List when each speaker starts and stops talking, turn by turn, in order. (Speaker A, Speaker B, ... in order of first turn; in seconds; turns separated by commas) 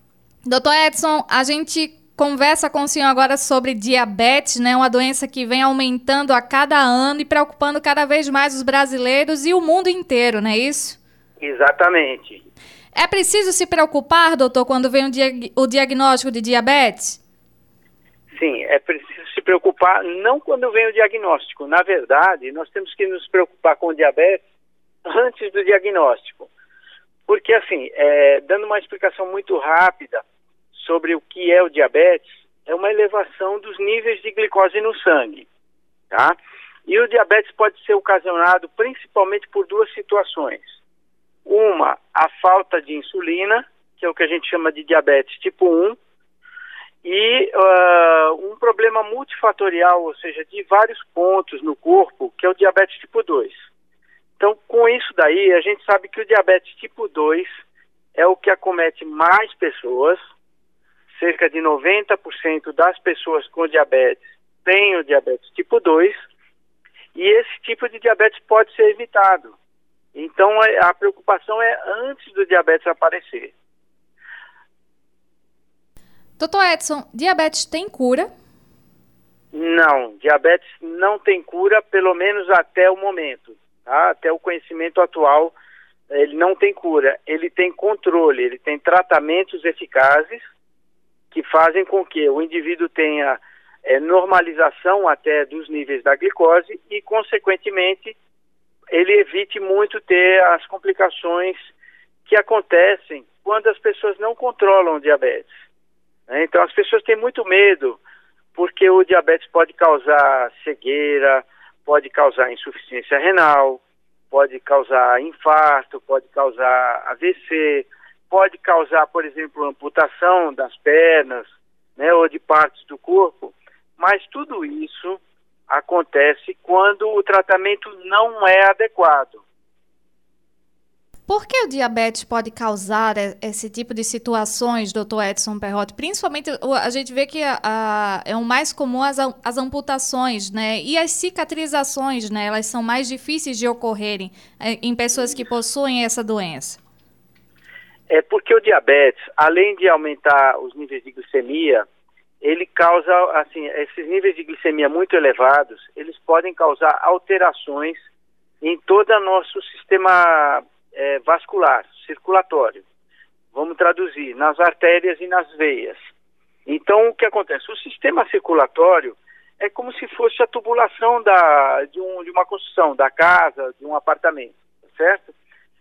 Speaker A: 0.4-11.0, Speaker B: 11.4-12.4, Speaker A: 12.9-17.2, Speaker B: 18.3-24.4, Speaker B: 25.0-26.5, Speaker B: 27.3-35.5, Speaker B: 36.1-36.4, Speaker B: 36.9-40.8, Speaker B: 41.4-46.0, Speaker B: 47.0-53.5, Speaker B: 54.4-57.6, Speaker B: 58.1-60.2, Speaker B: 61.1-66.2, Speaker B: 67.1-69.6, Speaker B: 70.1-73.5, Speaker A: 76.4-78.3, Speaker B: 79.5-85.5, Speaker B: 86.1-90.4, Speaker B: 91.3-98.2, Speaker B: 98.9-101.7, Speaker B: 102.2-105.5, Speaker B: 106.3-108.0, Speaker B: 108.5-129.4, Speaker A: 131.3-146.8, Speaker B: 148.1-151.9, Speaker B: 152.4-158.0, Speaker B: 158.6-162.8, Speaker B: 163.5-166.0, Speaker B: 166.7-175.3